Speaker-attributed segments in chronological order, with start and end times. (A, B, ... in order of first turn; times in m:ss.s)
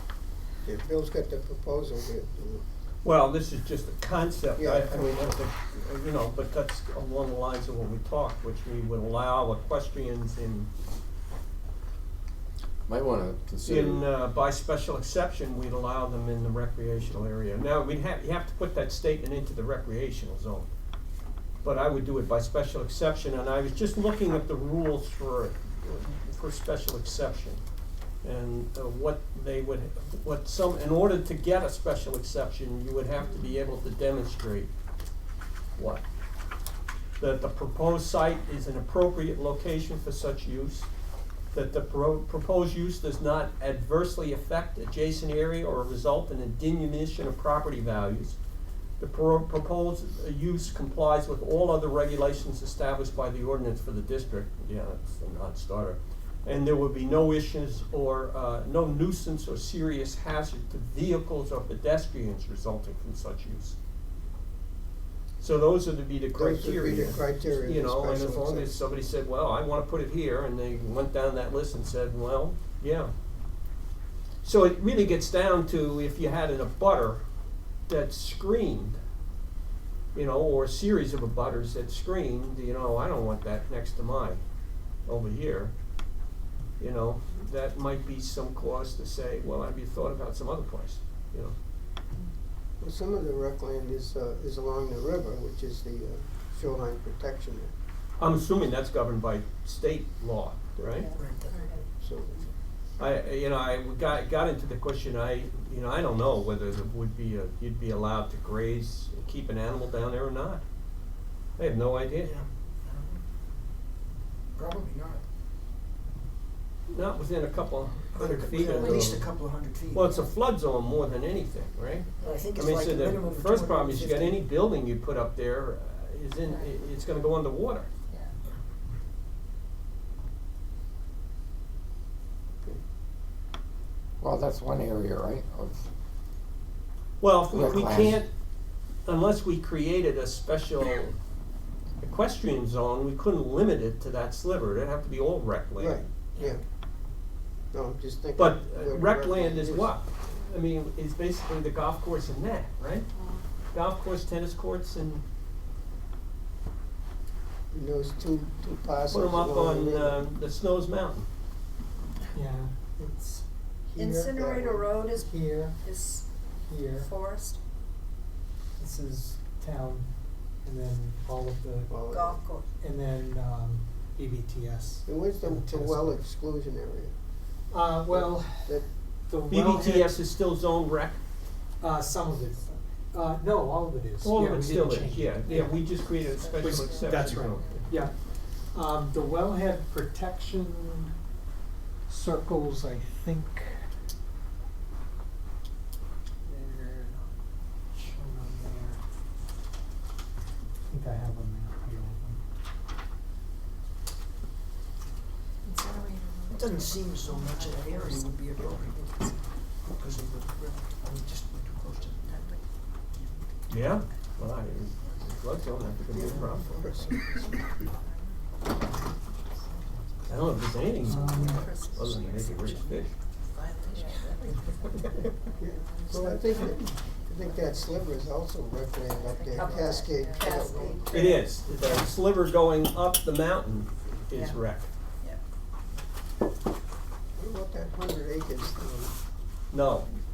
0:00.6-0:02.6 A
0:03.0-0:10.7 B
0:04.6-0:05.4 A
0:12.8-0:14.0 C
0:13.6-0:20.7 B
0:21.6-0:27.6 B
0:28.2-0:34.7 B
0:35.8-0:36.0 B
0:37.2-0:40.9 B
0:41.5-0:48.4 B
0:49.0-1:03.8 B
1:05.4-1:13.1 B
1:06.3-1:08.7 A
1:14.4-1:17.2 B
1:17.9-1:19.0 B
1:20.1-1:24.4 B
1:25.1-1:25.7 B
1:26.8-1:31.5 B
1:32.8-1:37.7 A
1:38.2-1:41.1 B
1:41.0-1:41.9 D
1:41.0-1:41.8 E
1:42.0-1:42.4 A
1:43.0-1:50.6 B
1:51.6-1:52.3 B
1:52.2-1:53.2 E
1:54.5-1:55.2 E
1:56.9-1:59.3 B
1:58.1-2:00.3 E
1:58.8-1:59.1 D
1:59.9-2:07.9 B
2:02.2-2:02.5 D
2:02.2-2:04.4 E
2:14.2-2:15.9 C
2:17.2-2:18.3 B
2:17.5-2:18.2 C
2:19.0-2:21.2 B
2:22.0-2:26.0 B
2:25.8-2:26.6 A
2:27.7-2:29.9 A
2:28.3-2:33.1 B
2:33.2-2:33.4 D
2:33.7-2:35.2 B
2:37.7-2:40.2 A
2:39.1-2:41.3 B
2:42.3-2:44.5 F
2:44.0-2:46.3 D
2:44.3-2:44.8 A
2:45.1-2:45.8 F
2:46.6-2:47.1 F
2:47.0-2:47.6 D
2:48.8-2:50.1 F
2:50.6-2:52.0 F
2:51.9-2:52.4 A
2:52.1-2:52.7 D
2:52.8-2:56.2 F
2:55.0-2:57.1 A
2:57.7-3:00.2 F
2:58.1-2:58.9 A
2:59.5-3:01.2 B
3:01.8-3:05.7 F
3:04.2-3:07.9 B
3:05.5-3:07.9 D
3:06.5-3:08.1 F
3:08.7-3:11.1 F
3:12.1-3:13.8 F
3:16.4-3:17.2 F
3:17.9-3:19.0 F
3:20.9-3:22.4 F
3:25.6-3:27.9 D
3:26.5-3:29.1 E
3:29.9-3:32.5 E
3:33.7-3:36.8 B
3:36.1-3:37.6 A
3:36.3-3:36.9 E
3:37.2-3:37.6 D
3:39.7-3:40.2 E
3:40.3-3:43.1 B
3:41.0-3:41.7 F
3:41.1-3:42.7 D
3:42.6-3:44.3 E
3:43.8-3:46.8 D
3:45.6-3:51.4 A
3:47.5-3:47.9 D
3:49.2-3:52.0 D
3:50.5-3:50.9 E
3:51.1-3:54.9 B
3:54.3-3:54.6 D
3:57.4-3:59.1 A
3:59.7-4:00.1 B